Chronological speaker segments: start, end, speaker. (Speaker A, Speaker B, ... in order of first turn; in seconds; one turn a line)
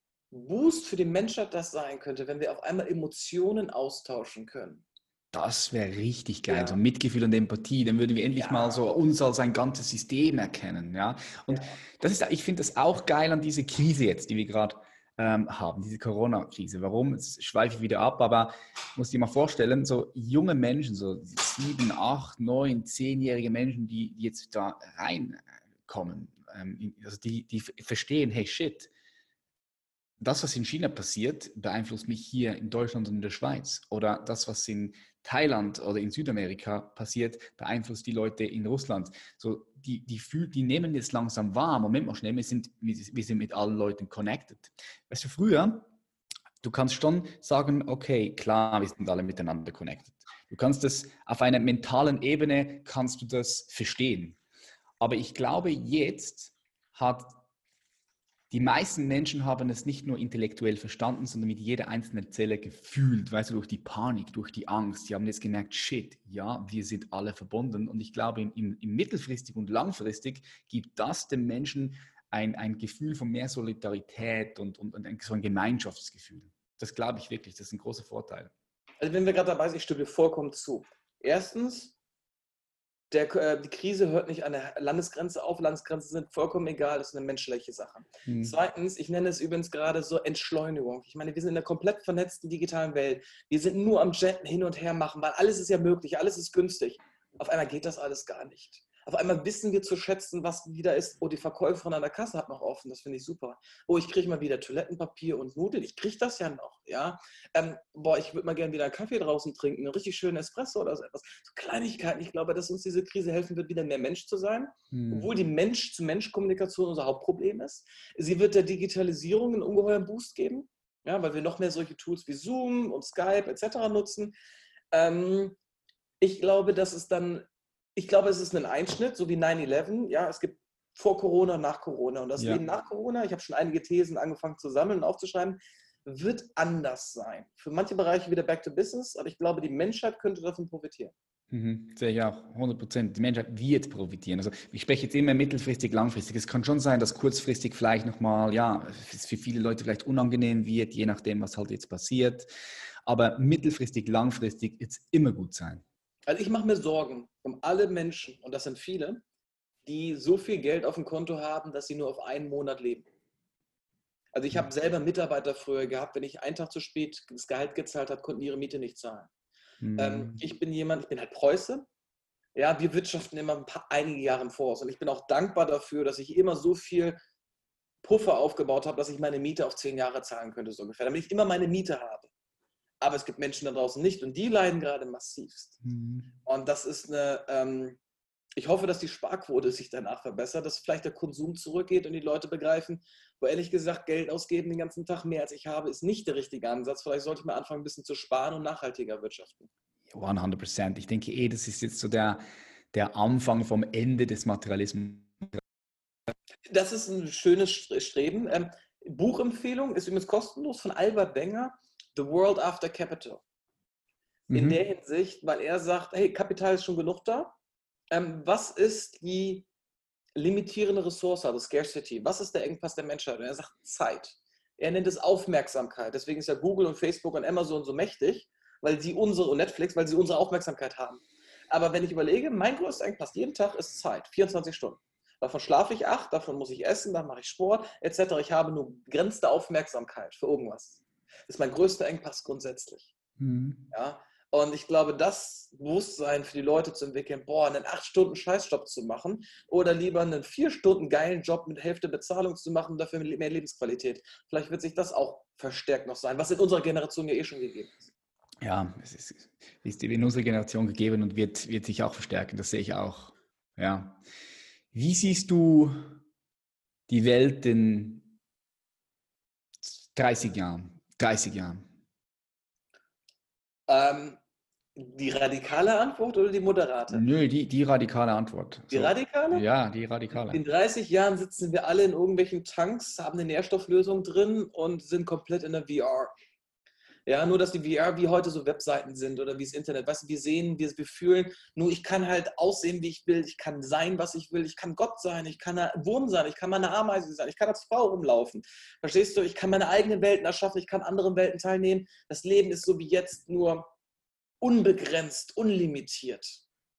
Speaker A: 0.3-4.8
Speaker B: 5.3-28.9
Speaker A: 6.5-6.8
Speaker A: 8.4-8.9
Speaker A: 11.5-11.8
Speaker B: 30.2-45.9
Speaker B: 46.6-54.4
Speaker B: 55.0-57.4
Speaker B: 58.5-78.5
Speaker A: 79.0-81.9
Speaker A: 83.1-124.3
Speaker B: 88.3-88.6
Speaker B: 114.9-115.3
Speaker A: 124.9-125.6
Speaker A: 126.2-141.1
Speaker B: 132.4-132.6
Speaker B: 141.5-152.5
Speaker B: 153.1-155.8
Speaker A: 156.3-159.2
Speaker A: 159.9-163.1
Speaker A: 164.3-169.3
Speaker B: 169.8-170.4
Speaker A: 170.0-171.9
Speaker A: 172.6-177.2
Speaker A: 178.0-182.3
Speaker A: 183.0-185.8
Speaker B: 185.8-186.3
Speaker A: 186.4-188.0
Speaker A: 188.6-199.7
Speaker B: 200.1-205.6
Speaker A: 206.7-213.4
Speaker A: 214.5-217.5
Speaker B: 214.5-214.8
Speaker A: 218.1-219.7
Speaker A: 220.4-243.1
Speaker B: 243.4-243.8
Speaker A: 243.9-258.0
Speaker B: 258.6-264.2
Speaker B: 264.9-266.1
Speaker B: 267.1-268.3
Speaker B: 269.8-271.8
Speaker A: 273.9-274.4
Speaker A: 275.0-277.2
Speaker B: 277.1-280.6
Speaker A: 278.9-279.7
Speaker A: 280.3-286.3
Speaker A: 287.3-303.9
Speaker A: 304.6-306.6